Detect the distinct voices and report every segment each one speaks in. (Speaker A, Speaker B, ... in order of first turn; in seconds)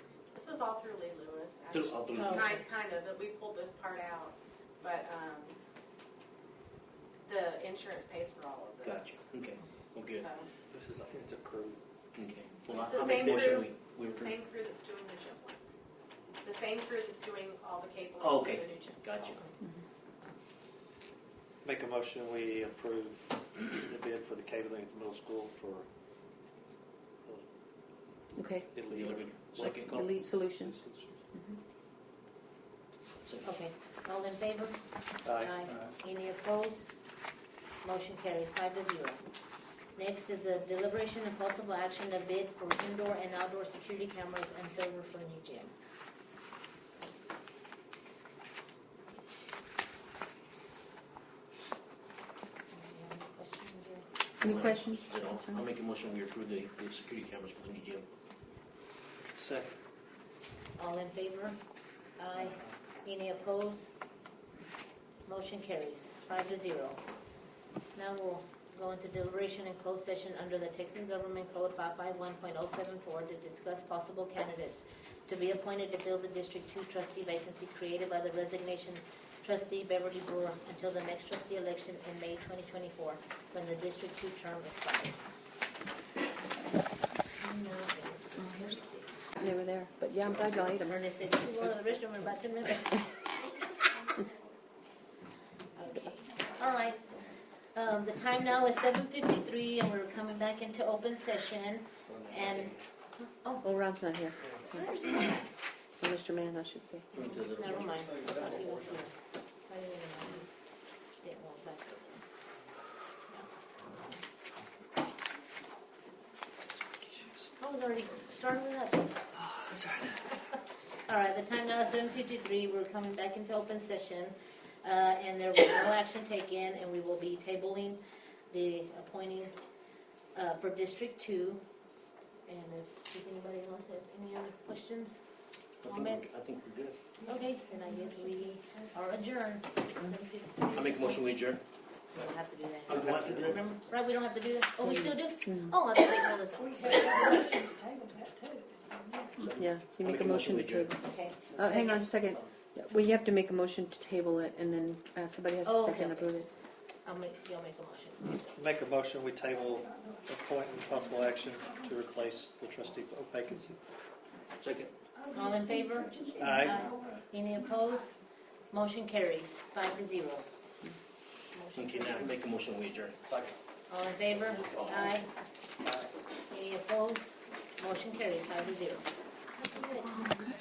Speaker A: 0.3-5.6, 7.2-9.2, 10.1-10.5, 12.7-15.6, 16.4-19.4
Speaker B: 1.7-2.6, 8.8-10.2, 12.1-14.3, 18.2-19.4, 28.9-30.1, 33.2-33.6, 54.4-58.0, 102.1-102.8, 107.1-108.4, 135.8-137.1, 140.7-141.6, 142.8-143.7, 149.3-151.0, 151.6-152.5, 164.6-164.9, 171.7-173.5, 174.3-175.1
Speaker C: 2.1-2.6, 33.4-36.9, 37.8-39.2, 40.0-45.7, 52.7-54.0, 60.8-61.6, 62.2-63.9, 65.2-67.0, 67.9-85.3, 87.3-89.3, 90.9-93.1, 95.8-97.1, 97.7-103.8, 104.7-105.5, 107.2-109.1, 109.7-110.5, 111.2-112.4, 113.3-114.2, 117.6-119.2, 121.0-129.5, 130.3-131.6, 132.4-135.2, 135.8-136.3, 137.2-141.2, 142.1-147.6, 151.0-152.1, 155.6-156.4, 157.0-158.5, 165.3-168.1, 168.7-170.5, 171.5-172.3, 173.9-175.3, 176.5-180.3
Speaker D: 10.7-11.8, 21.6-25.9, 28.7-31.2, 35.2-35.9, 59.4-59.7, 108.0-109.0, 117.0-117.4, 119.3-120.2, 142.9-143.6, 158.6-163.8, 166.3-166.9
Speaker E: 28.4-28.7, 29.8-30.8, 54.4-55.6, 88.4-88.8, 89.3-91.0, 103.6-104.9, 106.0-107.0, 144.8-145.7, 149.5-151.0, 151.5-156.5